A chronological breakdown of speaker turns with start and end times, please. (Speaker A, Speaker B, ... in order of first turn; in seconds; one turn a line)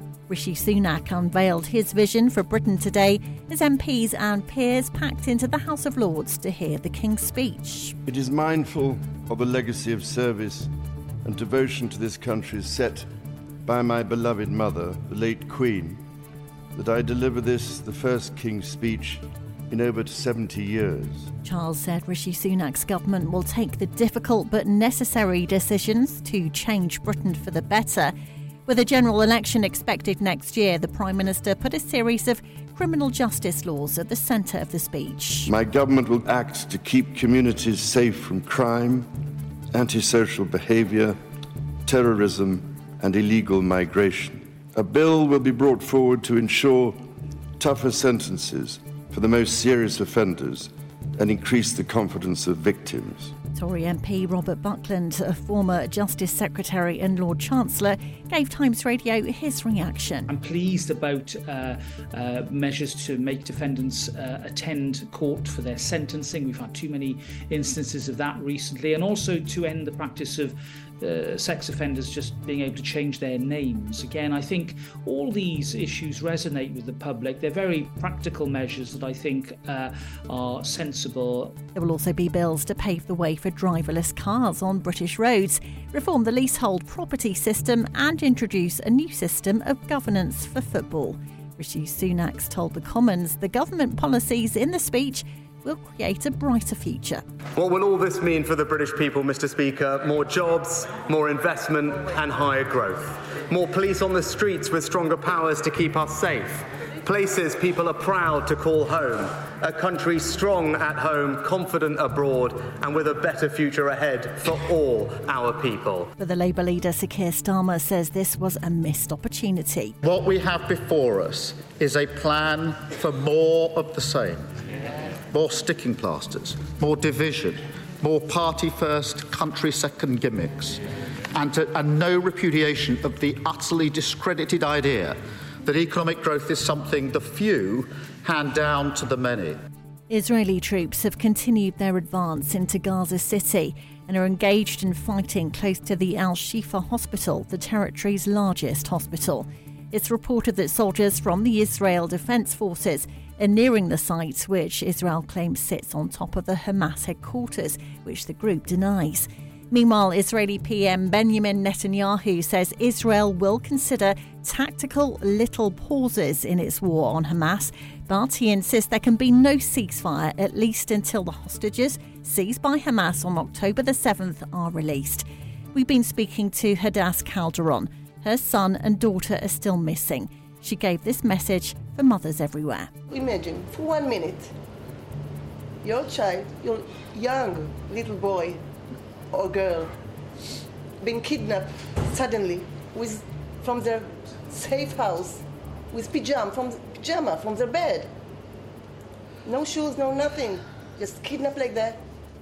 Speaker A: 0.3-8.0
Speaker B: 8.1-10.7
Speaker B: 11.2-13.1
Speaker B: 13.7-16.0
Speaker B: 16.7-21.3
Speaker A: 21.4-28.1
Speaker A: 28.7-35.5
Speaker B: 35.5-39.1
Speaker B: 39.7-41.2
Speaker B: 41.9-47.0
Speaker B: 47.6-53.3
Speaker A: 53.5-60.3
Speaker C: 60.3-81.5
Speaker A: 81.8-97.2
Speaker D: 97.6-116.1
Speaker A: 116.2-120.0
Speaker E: 120.0-124.5
Speaker E: 125.3-130.8
Speaker E: 131.3-139.6
Speaker A: 140.1-182.9
Speaker F: 183.1-184.5
Speaker F: 185.8-188.6
Speaker F: 189.3-189.9
Speaker F: 191.0-198.1
Speaker F: 199.4-202.0